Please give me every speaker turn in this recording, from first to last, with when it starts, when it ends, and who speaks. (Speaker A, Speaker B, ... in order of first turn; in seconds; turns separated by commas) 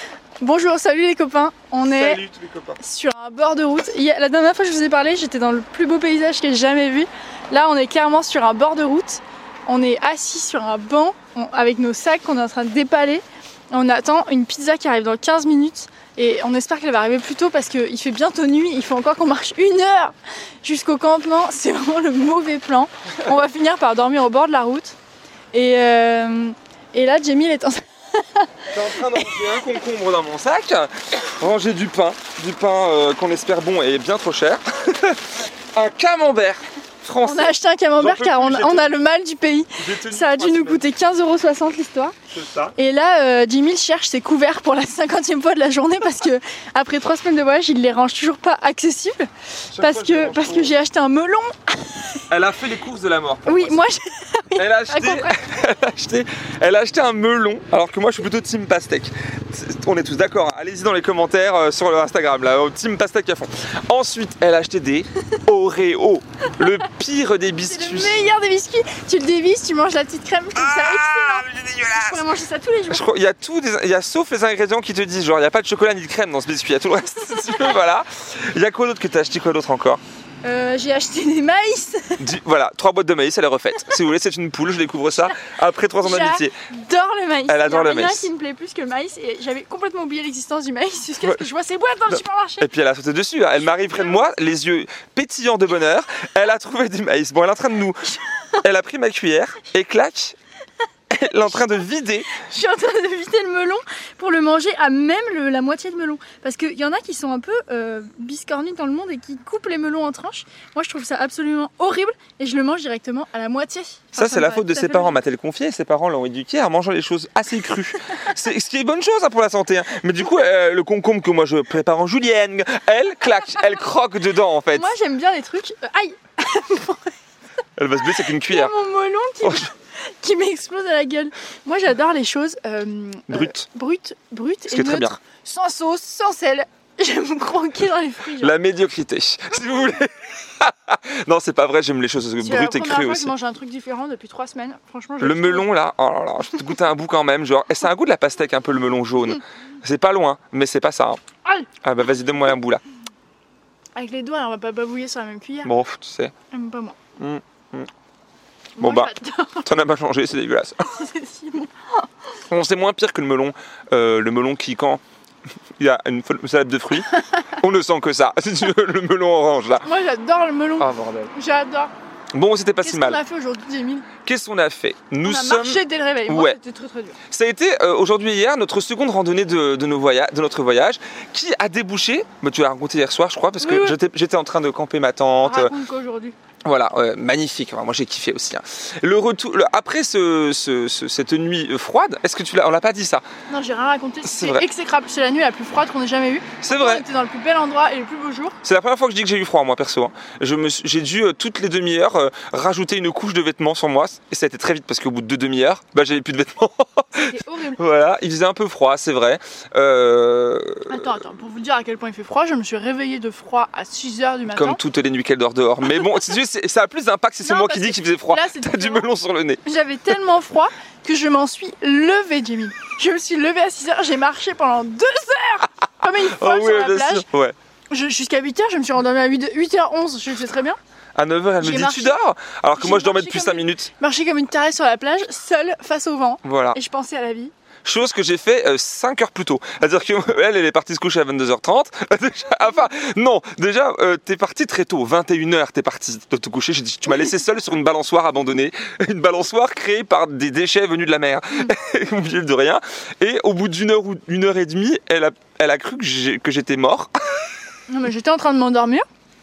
Speaker A: 0.4-2.2, Speaker B: 1.9-2.8, Speaker A: 2.8-25.0, Speaker A: 25.5-29.6, Speaker B: 28.7-39.0, Speaker A: 37.2-42.1, Speaker B: 39.8-40.9, Speaker B: 42.3-42.8, Speaker A: 42.8-52.2, Speaker B: 49.7-50.8, Speaker B: 52.3-53.9, Speaker A: 53.5-55.5, Speaker B: 54.6-68.2, Speaker A: 67.7-73.1, Speaker B: 70.6-72.3, Speaker B: 72.9-80.0, Speaker A: 80.4-82.3, Speaker B: 82.2-86.5, Speaker A: 86.0-92.7, Speaker B: 87.5-88.3, Speaker B: 91.2-91.5, Speaker B: 92.1-98.0, Speaker A: 93.7-94.2, Speaker B: 98.6-100.4, Speaker B: 101.1-102.3, Speaker A: 102.3-115.2, Speaker B: 114.2-125.0, Speaker A: 124.7-127.1, Speaker B: 127.8-128.7, Speaker A: 128.3-138.6, Speaker B: 129.4-129.7, Speaker B: 133.3-133.7, Speaker B: 134.7-135.2, Speaker B: 138.4-143.3, Speaker A: 142.4-145.7, Speaker B: 145.2-151.2, Speaker B: 151.8-152.8, Speaker A: 154.0-155.7, Speaker B: 155.6-156.3, Speaker A: 156.5-157.0, Speaker B: 157.2-157.9, Speaker A: 158.8-159.8, Speaker B: 158.8-159.1, Speaker B: 159.7-160.9, Speaker A: 160.8-162.1, Speaker B: 162.5-165.0, Speaker B: 165.8-169.9, Speaker A: 169.8-171.9, Speaker B: 170.8-171.3, Speaker B: 172.3-173.2, Speaker A: 172.8-174.1, Speaker B: 174.2-176.6, Speaker A: 175.2-177.2, Speaker B: 177.3-185.7, Speaker A: 183.6-184.0, Speaker A: 185.4-186.4, Speaker B: 186.7-193.2, Speaker A: 193.5-198.6, Speaker B: 194.2-194.7, Speaker B: 196.6-197.1, Speaker B: 198.6-211.1, Speaker A: 207.1-207.8, Speaker A: 210.9-214.8, Speaker B: 214.5-219.6, Speaker A: 217.4-219.1, Speaker A: 219.7-227.3, Speaker B: 226.1-227.6, Speaker A: 227.9-230.8, Speaker B: 231.2-233.9, Speaker A: 231.6-232.2, Speaker A: 232.8-237.5, Speaker B: 236.4-236.8, Speaker B: 237.8-257.4, Speaker A: 257.9-259.1